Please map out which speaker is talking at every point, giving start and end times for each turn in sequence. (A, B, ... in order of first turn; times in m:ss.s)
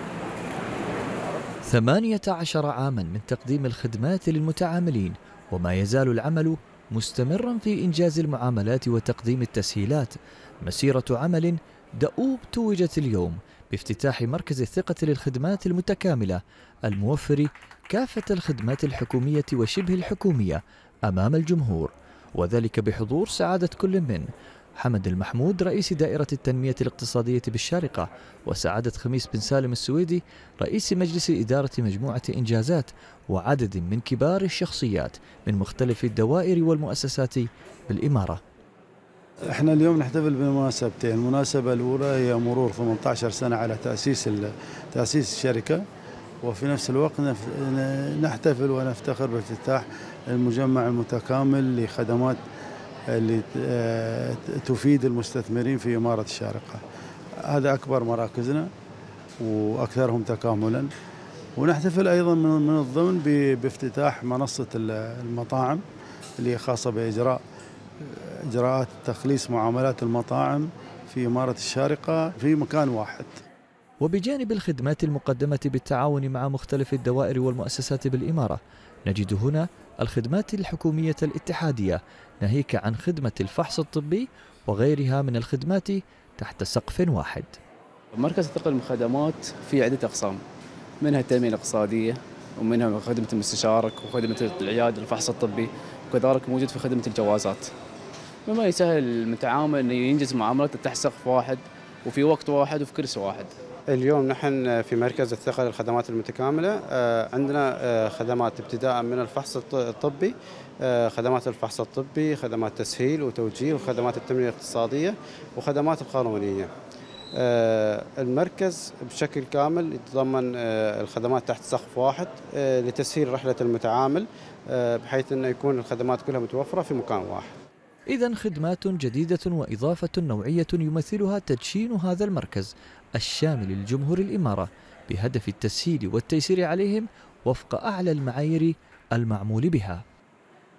0:01.6-0:38.4 A
0:39.5-0:45.8 B
0:46.4-0:52.4 B
0:53.1-0:56.8 B
0:57.5-0:58.7 B
0:59.4-1:00.9 B
1:01.6-1:05.8 B
1:06.4-1:07.4 B
1:08.0-1:13.3 B
1:14.0-1:27.5 A
1:28.1-1:30.4 C
1:31.0-1:37.7 C
1:38.5-1:43.5 C
1:43.9-1:56.7 D
1:57.4-2:07.5 D
2:08.1-2:20.0 A